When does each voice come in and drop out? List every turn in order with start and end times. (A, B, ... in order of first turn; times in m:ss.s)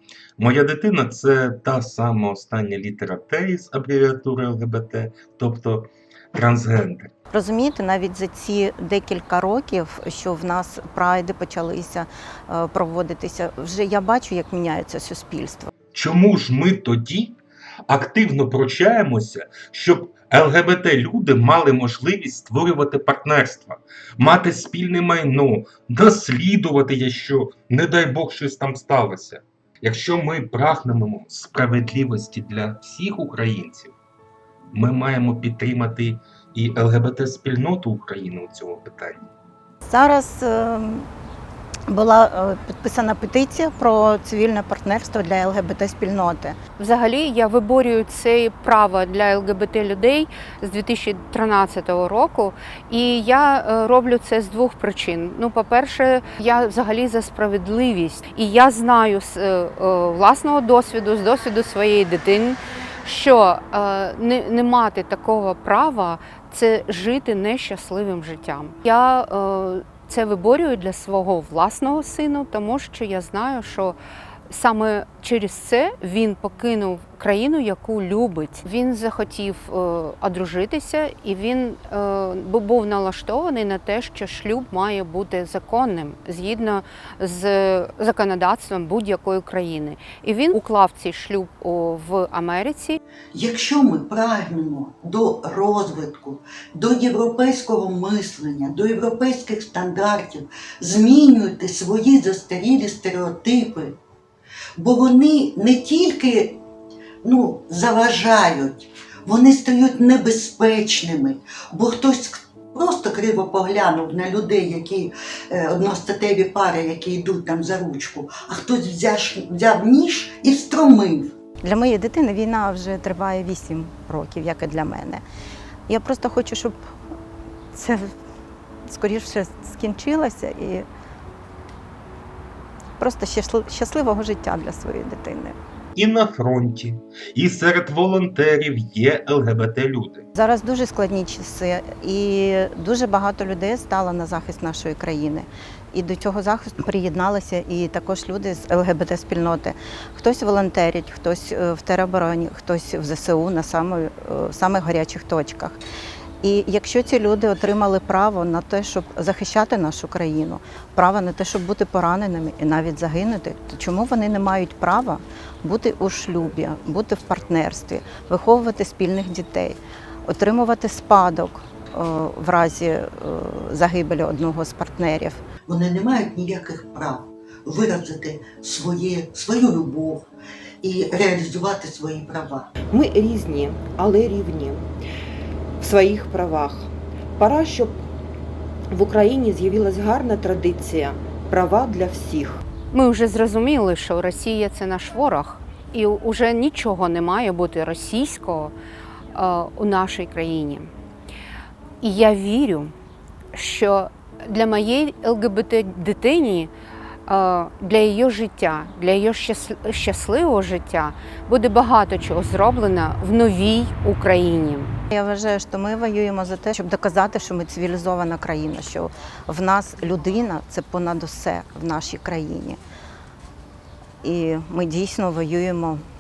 0:00.4-0:07.1 A
0:07.3-0:15.7 B
0:15.9-0:17.3 A
0:17.9-0:33.9 A
0:34.7-0:39.3 A
0:39.8-0:41.1 B
0:41.9-0:46.6 B
0:46.8-1:14.0 C
1:14.5-1:33.0 C
1:33.3-1:44.0 D
1:44.8-1:46.6 D
1:47.2-2:01.3 D
2:01.6-2:05.2 B
2:05.9-2:06.8 B
2:07.7-2:08.2 B
2:08.9-2:10.9 B
2:13.0-2:15.6 B
2:15.9-2:20.2 A
2:20.3-2:35.8 B
2:36.4-2:55.4 B
2:55.7-3:00.3 D
3:00.8-3:02.7 D
3:02.9-3:04.9 E
3:05.8-3:08.0 E
3:08.9-3:12.6 E
3:12.9-3:18.7 C
3:19.3-3:20.9 C
3:22.0-3:22.9 C
3:23.5-3:26.7 C
3:27.3-3:34.9 C
3:35.1-3:42.8 B
3:44.2-3:46.0 B